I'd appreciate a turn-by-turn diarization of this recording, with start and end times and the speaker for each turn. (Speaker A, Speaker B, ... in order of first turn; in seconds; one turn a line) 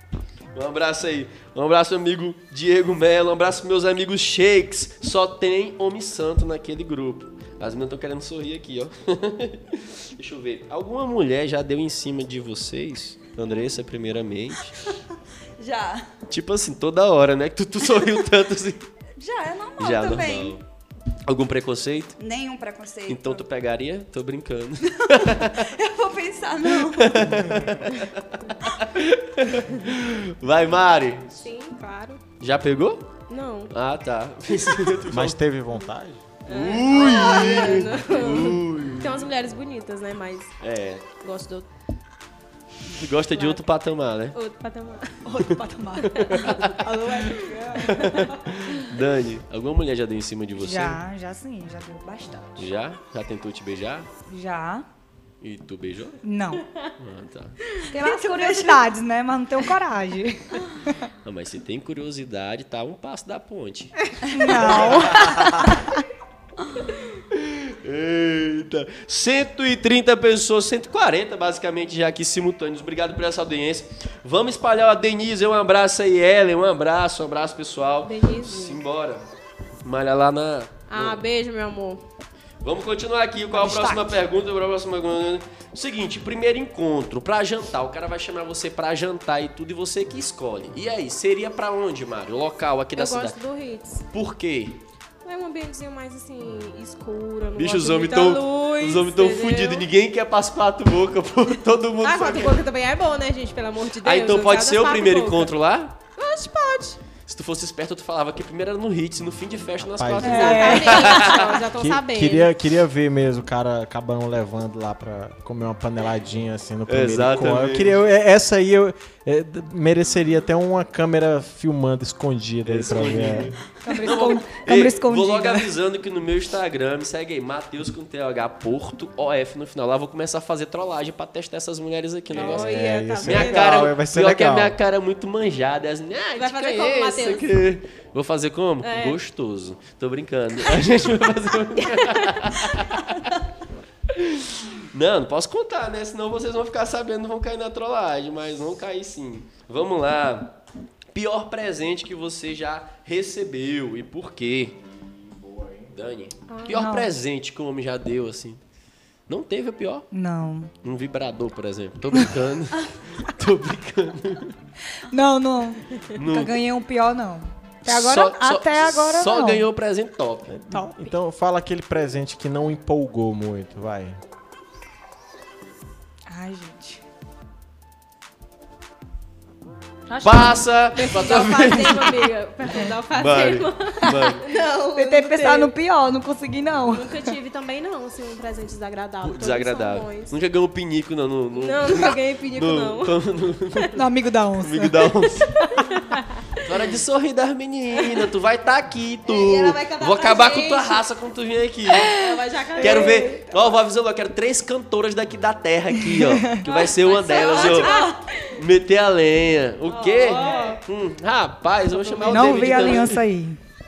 Speaker A: 0.6-14.8
Speaker B: 15.6-16.1
Speaker A: 16.3-18.9
Speaker B: 19.2-20.6
Speaker A: 19.8-20.6
Speaker A: 21.3-22.2
Speaker B: 22.2-23.4
Speaker A: 23.1-25.7
Speaker B: 25.0-27.4
Speaker A: 26.7-31.4
Speaker C: 31.4-32.2
Speaker A: 32.4-33.1
Speaker C: 33.3-33.7
Speaker A: 33.7-35.4
Speaker D: 35.1-36.2
Speaker C: 36.5-40.5
Speaker A: 36.5-39.3
Speaker A: 40.6-41.1
Speaker C: 41.2-41.7
Speaker A: 42.9-44.4
Speaker C: 43.3-43.6
Speaker C: 44.3-45.2
Speaker E: 45.2-48.4
Speaker C: 46.1-47.6
Speaker A: 46.3-46.7
Speaker A: 47.8-51.0
Speaker E: 50.6-52.7
Speaker A: 52.6-54.1
Speaker E: 54.3-54.9
Speaker A: 55.4-56.2
Speaker E: 56.2-56.6
Speaker A: 57.0-57.6
Speaker E: 57.9-61.0
Speaker B: 58.0-58.9
Speaker A: 61.2-64.0
Speaker E: 64.3-66.0
Speaker B: 64.3-65.3
Speaker A: 64.5-65.8
Speaker A: 67.3-79.3
Speaker C: 78.0-78.8
Speaker A: 79.8-81.2
Speaker C: 80.9-82.0
Speaker A: 82.6-93.4
Speaker E: 83.5-84.2
Speaker C: 93.0-94.1
Speaker A: 94.1-94.8
Speaker C: 95.2-99.9
Speaker A: 97.6-102.6
Speaker C: 102.0-105.5
Speaker A: 104.0-106.0
Speaker C: 106.1-107.0
Speaker A: 107.3-111.6
Speaker D: 109.8-110.5
Speaker E: 110.2-111.1
Speaker C: 110.3-112.5
Speaker D: 111.8-123.6
Speaker A: 116.9-118.0
Speaker A: 122.7-143.3
Speaker E: 123.8-125.7
Speaker C: 132.3-133.8
Speaker D: 132.3-134.8
Speaker C: 136.3-137.6
Speaker C: 138.8-139.2
Speaker C: 141.9-142.8
Speaker A: 144.1-150.6
Speaker A: 151.1-154.8
Speaker D: 155.0-155.9
Speaker A: 155.9-158.6
Speaker C: 156.5-156.8
Speaker E: 156.7-157.1
Speaker A: 159.3-160.1
Speaker E: 160.1-160.7
Speaker A: 160.8-164.6
Speaker E: 164.9-169.7
Speaker A: 166.2-166.6
Speaker A: 167.8-170.5
Speaker D: 170.5-174.2
Speaker E: 170.7-171.2
Speaker E: 176.3-177.0
Speaker E: 180.1-181.4
Speaker A: 180.2-182.3
Speaker C: 181.0-185.7
Speaker A: 183.1-184.5
Speaker E: 184.0-184.4
Speaker E: 184.9-187.3
Speaker C: 186.9-190.4
Speaker A: 189.2-194.0
Speaker C: 191.5-193.2
Speaker E: 193.9-195.9
Speaker A: 194.6-195.6
Speaker C: 195.8-196.4
Speaker A: 196.6-202.1
Speaker C: 199.3-201.0
Speaker E: 201.9-203.6
Speaker C: 202.1-203.3
Speaker A: 202.8-208.0
Speaker E: 206.0-206.6
Speaker C: 206.6-208.5
Speaker B: 207.3-208.2
Speaker A: 208.5-213.2
Speaker C: 209.9-210.8
Speaker E: 210.4-210.8
Speaker C: 211.9-213.1
Speaker E: 212.2-213.6